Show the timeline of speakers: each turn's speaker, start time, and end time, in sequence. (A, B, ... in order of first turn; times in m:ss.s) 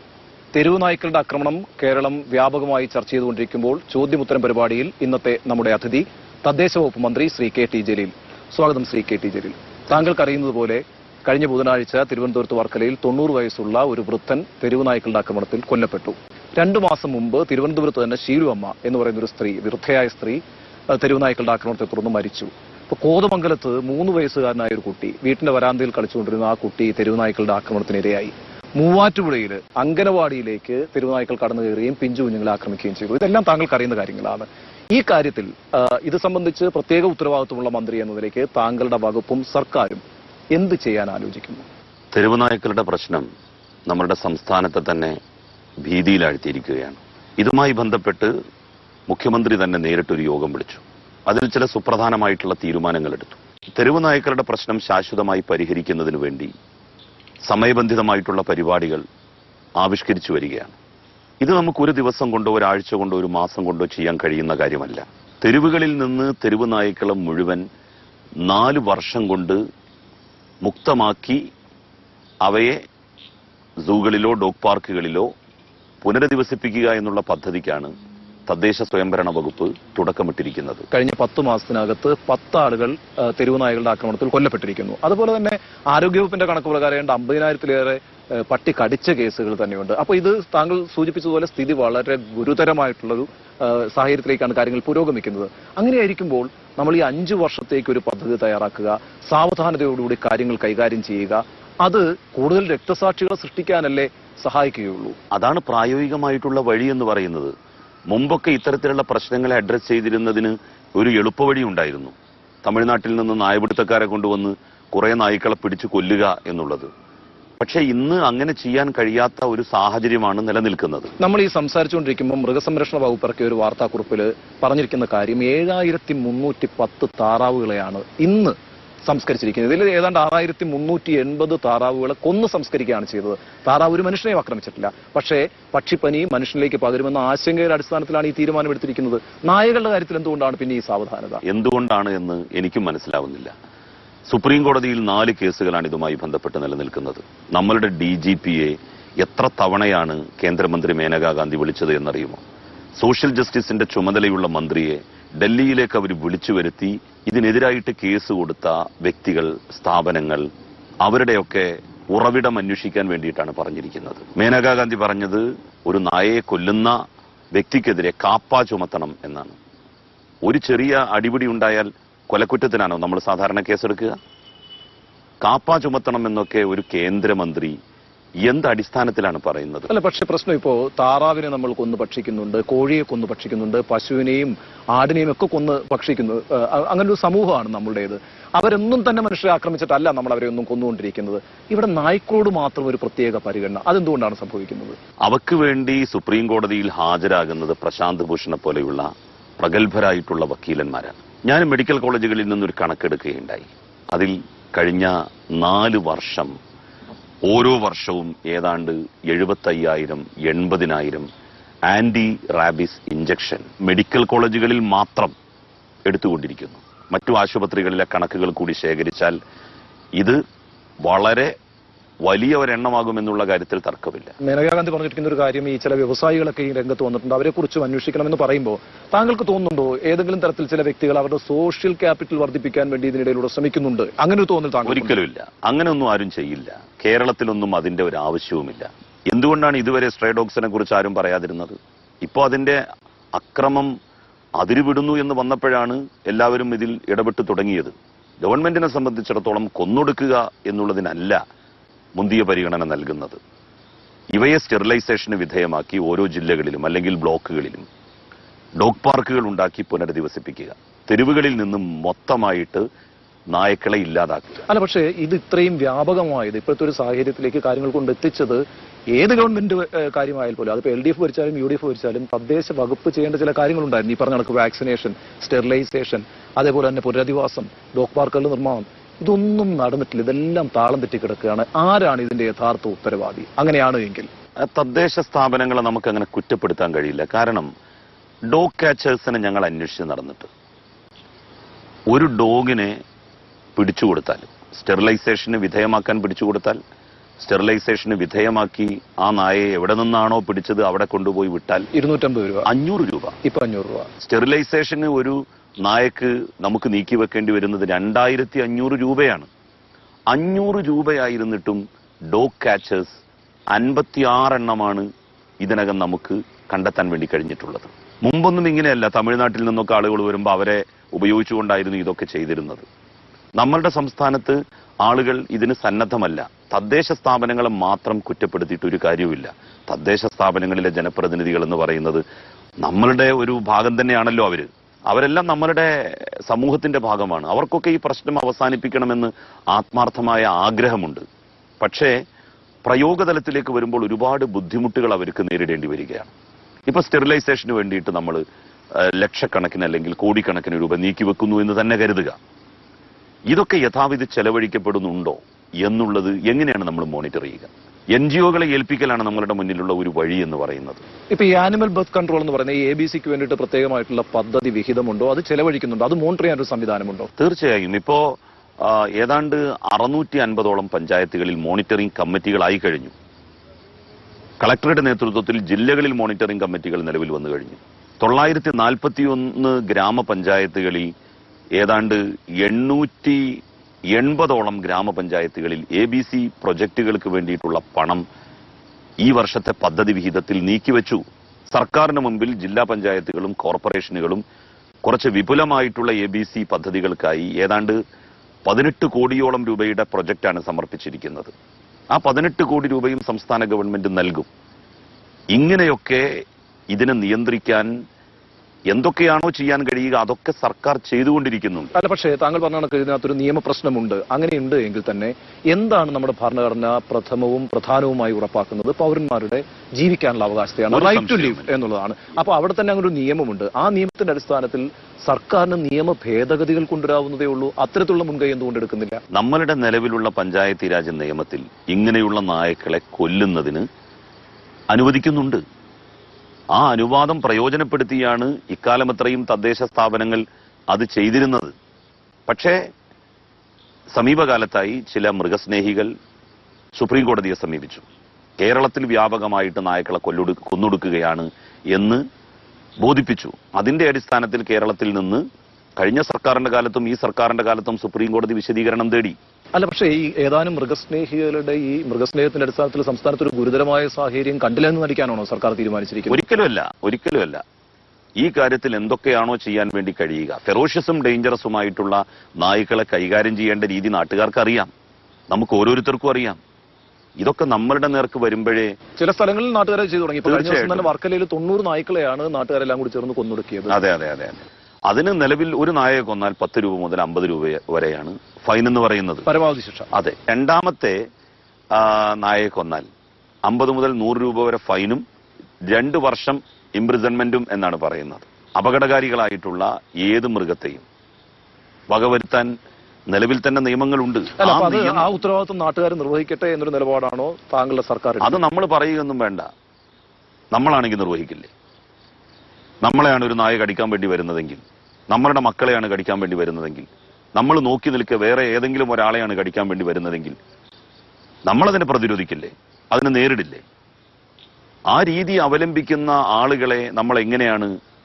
0:00.5-0:20.4 A
0:20.9-0:40.0 A
0:40.5-0:41.7 A
0:42.1-0:43.3 B
0:43.9-0:45.2 B
0:45.8-0:48.3 B
0:49.1-0:56.5 B
0:57.5-0:59.0 B
0:59.8-1:00.8 B
1:01.4-1:07.6 B
1:08.4-1:09.6 B
1:10.6-1:11.4 B
1:12.4-1:12.8 B
1:13.8-1:15.3 B
1:16.0-1:17.9 B
1:18.5-1:20.9 B
1:20.9-1:45.2 A
1:45.3-1:47.5 B
1:48.1-1:56.9 B
1:57.6-2:01.1 B
2:01.2-2:21.4 A
2:21.4-2:23.5 B
2:24.3-2:32.4 B
2:33.0-2:40.4 B
2:41.0-2:47.0 B
2:47.5-2:49.6 B
2:50.4-2:54.2 B
2:55.4-2:57.8 B
2:58.4-2:59.9 B
2:59.9-3:15.0 A
3:15.2-3:19.1 B
3:19.6-3:26.5 B
3:27.5-3:31.3 B
3:31.9-3:35.3 B
3:36.1-3:39.4 B
3:41.0-3:41.5 B
3:42.2-3:44.4 B
3:44.4-3:55.1 A
3:54.9-4:02.8 B
4:03.4-4:03.9 B
4:04.6-4:11.4 B
4:12.2-4:13.4 B
4:14.3-4:17.9 B
4:18.8-4:22.8 B
4:23.5-4:24.6 B
4:24.7-4:44.3 A
4:44.6-4:47.7 B
4:48.5-4:50.5 B
4:52.1-4:53.0 B
4:53.8-4:56.8 B
4:57.4-5:01.9 B
5:01.9-5:02.7 A
5:02.7-5:03.4 B
5:03.4-5:04.1 A
5:04.2-5:09.5 B
5:10.3-5:13.2 B
5:13.7-5:15.1 B
5:15.6-5:22.9 B
5:23.6-5:32.2 B
5:32.8-5:41.2 B
5:41.8-5:42.2 B
5:42.8-5:46.3 B
5:46.9-5:48.4 B
5:49.0-5:52.4 B
5:53.5-6:01.0 B
6:01.3-6:07.3 A
6:07.4-6:13.1 B
6:14.6-6:21.1 B
6:21.8-6:23.6 B
6:24.1-6:28.2 B
6:29.2-6:34.4 B
6:35.0-6:38.0 B
6:38.6-6:41.5 B
6:42.1-6:44.5 B
6:45.5-6:46.3 B
6:46.9-6:47.9 B
6:48.9-6:51.9 B
6:52.0-7:09.2 A
7:00.9-7:01.7 B
7:09.3-7:13.9 B
7:14.9-7:15.6 B
7:16.7-7:21.7 B
7:22.5-7:22.8 B
7:24.1-7:26.1 B
7:27.0-7:28.0 B
7:28.6-7:32.2 B
7:33.0-7:35.4 B
7:36.0-7:39.4 B
7:39.8-7:46.4 A
7:46.3-7:47.6 B
7:48.4-7:54.9 B
7:55.5-7:56.6 B
7:57.4-7:59.0 B
7:59.2-8:04.0 A
8:00.4-8:01.1 B
8:03.9-8:09.5 B
8:09.5-8:10.1 A
8:10.1-8:11.2 B
8:11.9-8:13.1 B
8:13.7-8:15.2 B
8:15.9-8:21.0 B
8:22.1-8:22.7 B
8:23.3-8:25.3 B
8:24.6-8:28.6 A
8:28.4-8:29.7 B
8:30.7-8:31.7 B
8:33.0-8:40.6 B
8:41.7-8:43.8 B
8:45.1-8:47.9 B